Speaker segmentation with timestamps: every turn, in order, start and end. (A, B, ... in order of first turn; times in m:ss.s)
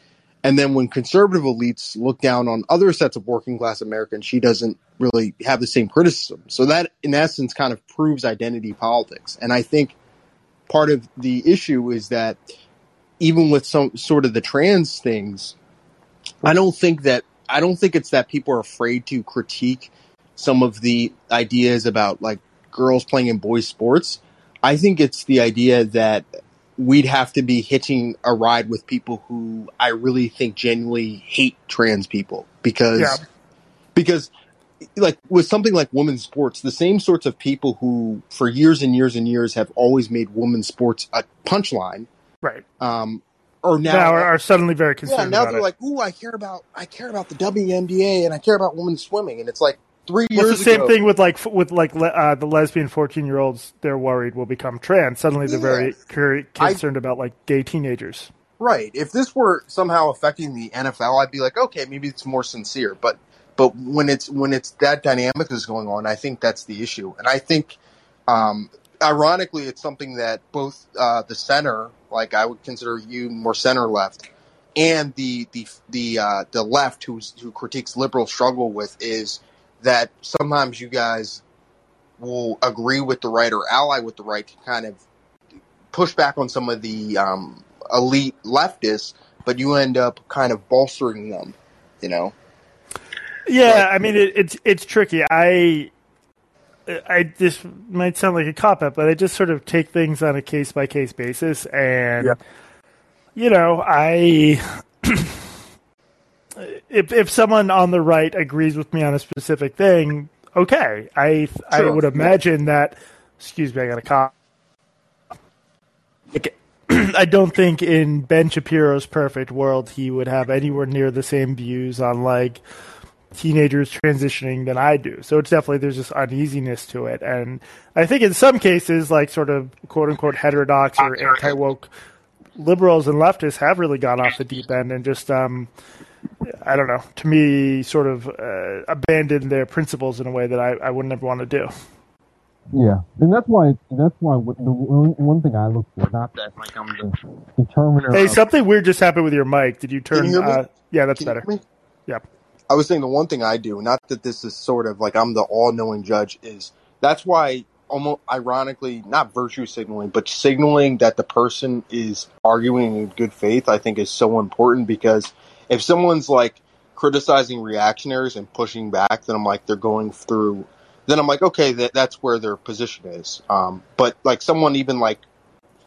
0:00.4-0:10.0 A
0:10.7-0:12.4 A
0:13.2-0:15.6 A
0:16.4-0:26.3 A
0:26.8-0:33.2 A
0:34.0-0:34.3 A
0:35.0-0:42.1 A
0:42.8-0:44.3 A
0:43.9-0:45.6 B
0:45.0-0:50.9 A
0:50.4-0:58.3 B
0:55.5-0:55.9 A
0:58.6-1:07.8 A
1:08.3-1:21.4 A
1:22.2-1:25.0 A
1:25.9-1:32.3 A
1:33.5-1:35.9 B
1:36.9-1:42.4 B
1:43.4-1:45.4 B
1:46.6-1:54.3 B
1:51.7-1:52.0 A
1:56.3-2:02.6 B
2:03.3-2:11.9 B
2:12.6-2:15.7 B
2:16.7-2:21.7 B
2:22.7-2:28.4 C
2:28.1-2:31.5 B
2:30.1-2:30.6 A
2:31.2-2:31.6 A
2:32.7-2:55.2 A